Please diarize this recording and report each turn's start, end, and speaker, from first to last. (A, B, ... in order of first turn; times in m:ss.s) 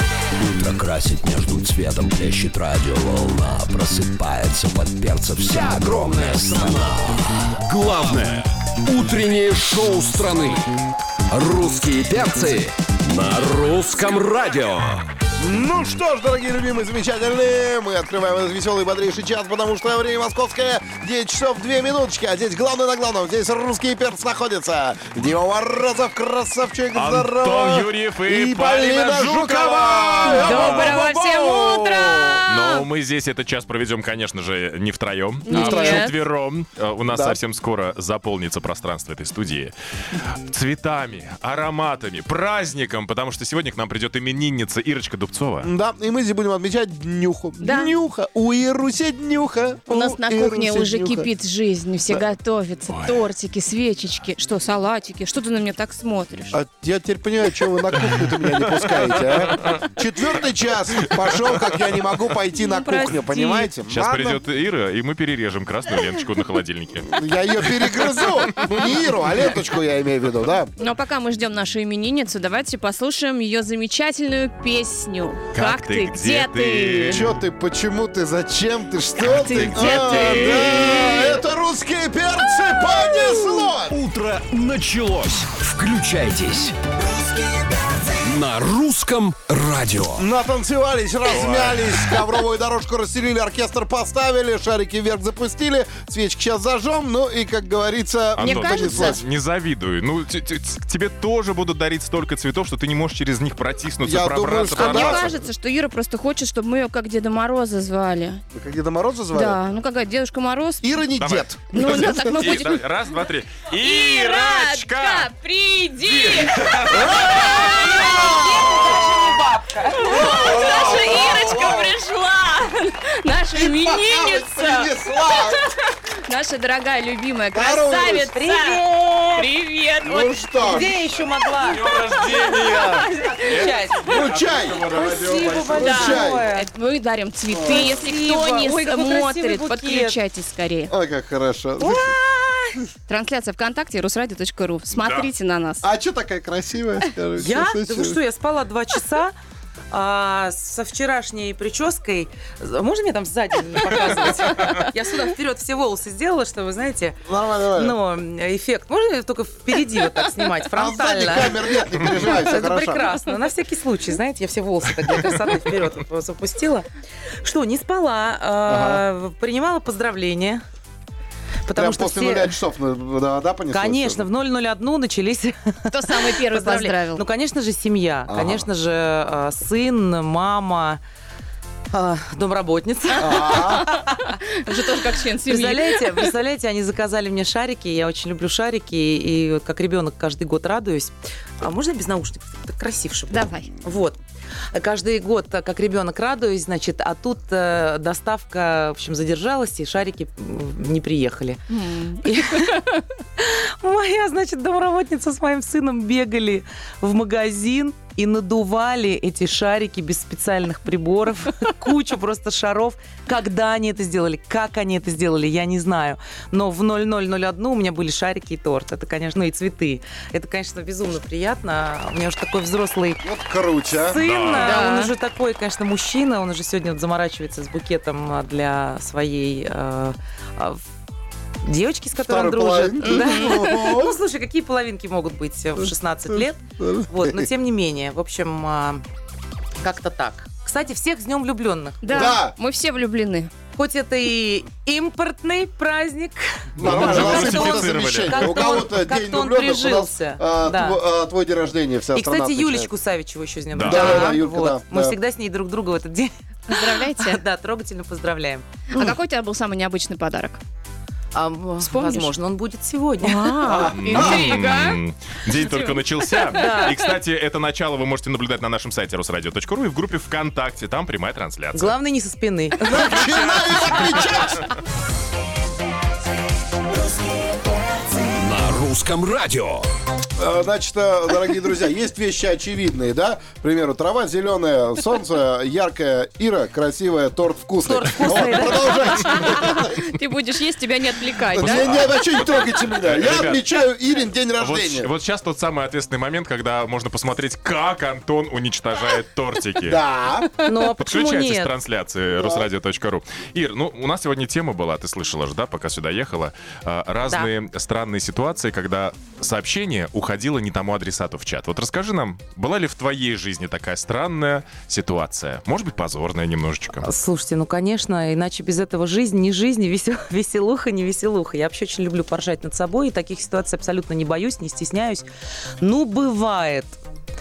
0:00.4-0:10.7 A
0:11.3-0:15.1 A
0:15.4-0:32.4 B
0:27.0-0:31.0 C
0:30.2-0:32.8 D
0:32.5-0:39.7 C
0:35.5-0:36.1 D
0:35.5-0:36.1 B
0:37.1-0:37.4 B
0:40.5-0:45.7 C
0:45.6-0:51.3 B
0:47.6-0:47.9 D
0:49.9-0:56.6 D
0:52.9-0:53.2 C
0:56.5-1:04.4 B
1:02.6-1:03.7 D
1:03.9-1:07.7 C
1:07.0-1:10.7 B
1:10.8-1:17.2 D
1:15.5-1:17.3 C
1:17.1-1:24.0 B
1:19.3-1:21.4 D
1:19.4-1:21.1 C
1:23.8-1:26.8 A
1:28.2-1:30.2 A
1:30.2-1:39.2 B
1:31.3-1:32.2 C
1:38.4-1:45.4 C
1:38.4-1:39.2 D
1:44.0-1:45.3 B
1:44.8-1:48.4 D
1:48.5-1:49.6 B
1:49.3-1:50.9 D
1:50.8-1:52.7 B
1:51.2-1:55.3 C
1:51.7-1:52.8 D
1:53.8-1:58.8 D
1:56.0-1:58.1 C
1:56.9-1:57.4 B
1:57.4-2:00.7 E
1:57.9-1:59.0 B
1:59.8-2:05.7 D
2:00.0-2:02.0 B
2:00.5-2:01.4 C
2:03.5-2:05.6 B
2:06.3-2:08.8 D
2:07.5-2:08.3 B
2:07.9-2:09.5 E
2:09.4-2:10.4 D
2:10.0-2:11.0 B
2:10.6-2:11.9 E
2:11.6-2:16.1 C
2:11.9-2:13.7 D
2:13.5-2:14.2 E
2:14.1-2:14.8 B
2:14.9-2:16.7 E
2:15.7-2:16.5 B
2:15.7-2:20.9 D
2:17.5-2:18.0 B
2:17.7-2:20.2 E
2:20.9-2:22.2 B
2:21.8-2:22.8 E
2:23.1-2:25.8 D
2:24.9-2:25.3 C
2:25.8-2:28.2 B
2:27.4-2:29.3 E
2:29.9-2:46.9 E
2:37.3-2:38.0 B
2:40.7-2:43.1 B
2:47.4-2:50.6 E
2:48.7-2:49.0 B
2:51.7-2:52.6 E
2:51.7-2:54.3 B
2:53.7-3:01.0 E
2:55.9-2:57.2 D
2:58.3-2:58.7 B
3:01.9-3:04.4 E
3:03.2-3:03.9 B
3:03.8-3:06.2 D
3:05.5-3:14.2 E
3:13.3-3:13.7 D
3:14.7-3:21.6 E
3:21.7-3:22.9 D
3:22.2-3:43.2 E
3:43.2-3:44.2 B
3:43.9-3:50.8 E
3:44.2-3:44.8 C
3:44.5-3:45.1 D
3:51.6-3:59.0 E
3:52.2-3:54.2 B
3:53.0-3:53.9 D
3:55.8-3:57.5 B
3:59.8-4:02.4 E
4:02.0-4:03.5 D
4:02.1-4:02.6 B
4:03.8-4:11.0 E
4:06.8-4:08.6 C
4:06.8-4:12.9 B
4:12.1-4:19.1 E
4:13.7-4:14.3 C
4:13.8-4:15.2 B
4:16.7-4:17.4 D
4:18.9-4:20.6 D
4:21.3-4:23.9 E
4:21.8-4:22.3 D
4:23.2-4:25.0 D
4:23.6-4:24.5 B
4:23.9-4:32.0 C
4:25.7-4:26.0 D
4:26.5-4:26.9 E
4:31.7-4:33.5 E
4:32.8-4:34.7 B
4:38.4-4:39.9 A
4:40.4-4:50.1 B
4:47.8-4:49.7 E
4:49.3-4:51.9 D
4:51.5-4:55.1 B
4:51.6-4:53.7 C
4:54.6-5:00.0 C
4:59.8-5:00.5 B
5:00.6-5:01.7 E
5:01.0-5:17.1 C
5:02.4-5:02.7 B
5:17.0-5:25.3 E
5:25.8-5:27.0 E